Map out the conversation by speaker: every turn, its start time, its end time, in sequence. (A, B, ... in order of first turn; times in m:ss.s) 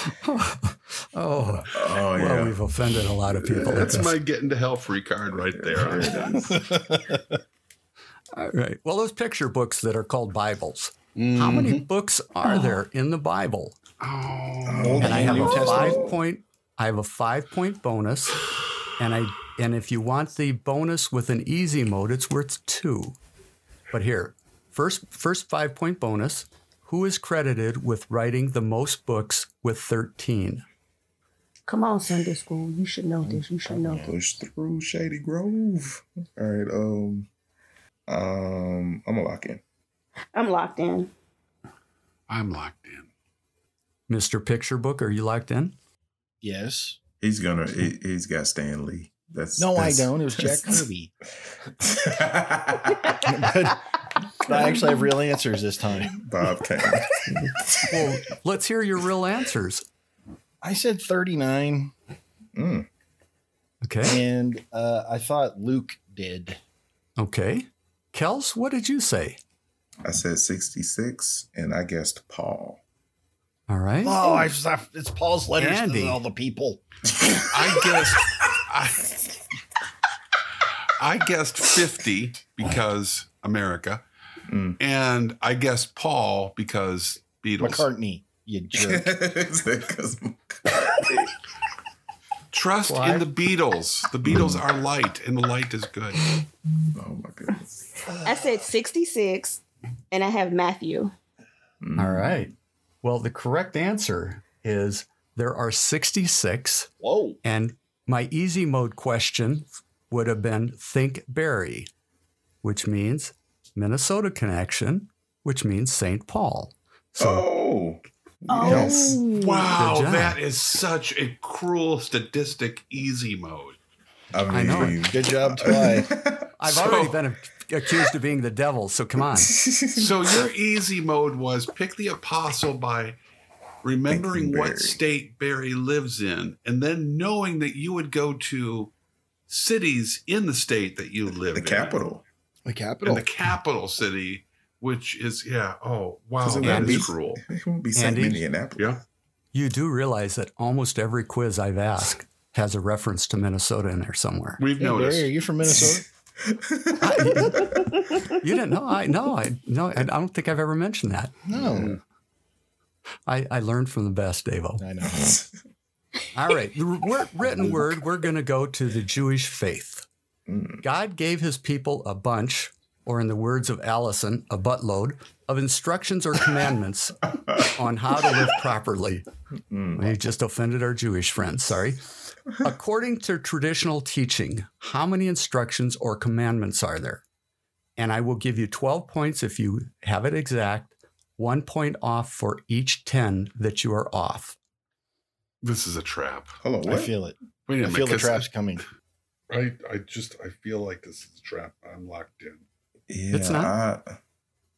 0:00.1-0:04.1 A
0:01.7-0:02.6 B
0:03.4-0:06.4 C
0:05.4-0:06.6 B
0:06.5-0:07.4 D
0:08.3-0:13.8 A
0:11.2-0:11.8 C
0:14.0-0:15.5 C
0:14.6-0:16.1 B
0:14.8-0:16.1 D
0:15.0-0:18.4 A
0:19.0-0:23.2 A
0:23.9-0:30.6 A
0:31.7-0:34.1 E
0:33.8-0:34.1 D
0:33.9-0:37.3 B
0:38.1-0:39.6 B
0:40.3-0:41.1 E
0:42.3-0:43.1 C
0:44.1-0:45.8 A
0:46.4-0:47.0 D
0:47.2-0:50.8 B
0:49.6-0:51.1 D
0:51.8-0:53.2 B
0:53.2-0:56.1 D
0:56.1-0:58.0 B
0:57.9-0:59.8 A
1:00.6-1:01.9 D
1:02.5-1:02.9 B
1:03.8-1:04.2 A
1:04.0-1:06.6 D
1:07.2-1:09.4 A
1:10.0-1:12.8 B
1:13.7-1:14.4 A
1:14.0-1:16.8 D
1:15.6-1:16.2 A
1:17.5-1:19.2 C
1:20.9-1:24.0 C
1:24.5-1:24.8 B
1:24.8-1:27.9 C
1:27.6-1:29.1 D
1:28.7-1:31.3 B
1:32.5-1:36.2 C
1:32.8-1:33.2 A
1:34.2-1:34.6 B
1:36.9-1:37.8 B
1:38.2-1:41.1 E
1:41.8-1:42.4 B
1:42.0-1:42.5 A
1:43.0-1:46.9 A
1:47.0-1:47.4 D
1:47.4-1:51.9 A
1:52.6-1:57.5 A
1:57.2-1:59.2 B
1:58.5-1:59.7 E
1:59.3-2:03.8 C
1:59.7-2:00.4 A
2:04.3-2:06.5 B
2:04.5-2:05.1 A
2:05.1-2:06.1 D
2:06.6-2:09.6 A
2:06.6-2:07.2 C
2:09.3-2:10.4 B
2:09.9-2:13.2 C
2:13.8-2:18.9 C
2:14.1-2:15.0 B
2:19.5-2:22.0 C
2:21.5-2:22.2 B
2:22.6-2:23.2 D
2:23.0-2:27.4 C
2:26.4-2:29.0 B
2:26.6-2:27.1 A
2:28.0-2:28.4 A
2:29.5-2:34.6 A
2:34.6-2:35.3 C
2:34.8-2:36.0 D
2:36.4-2:37.7 B
2:37.0-2:37.8 A
2:37.8-2:38.2 E
2:38.4-2:41.3 A
2:41.5-2:42.0 D
2:41.5-2:41.9 B
2:43.3-2:44.8 A
2:44.8-2:45.3 D
2:45.1-2:45.5 B
2:46.3-2:50.1 A
2:50.5-2:50.8 B
2:50.8-2:59.2 A
2:59.7-3:00.2 B
3:00.0-3:07.2 A
3:08.0-3:14.6 A
3:15.6-3:16.5 C
3:16.6-3:17.1 B
3:16.8-3:18.8 D
3:17.7-3:18.5 C
3:19.5-3:22.6 C
3:23.1-3:24.2 B
3:23.3-3:23.7 A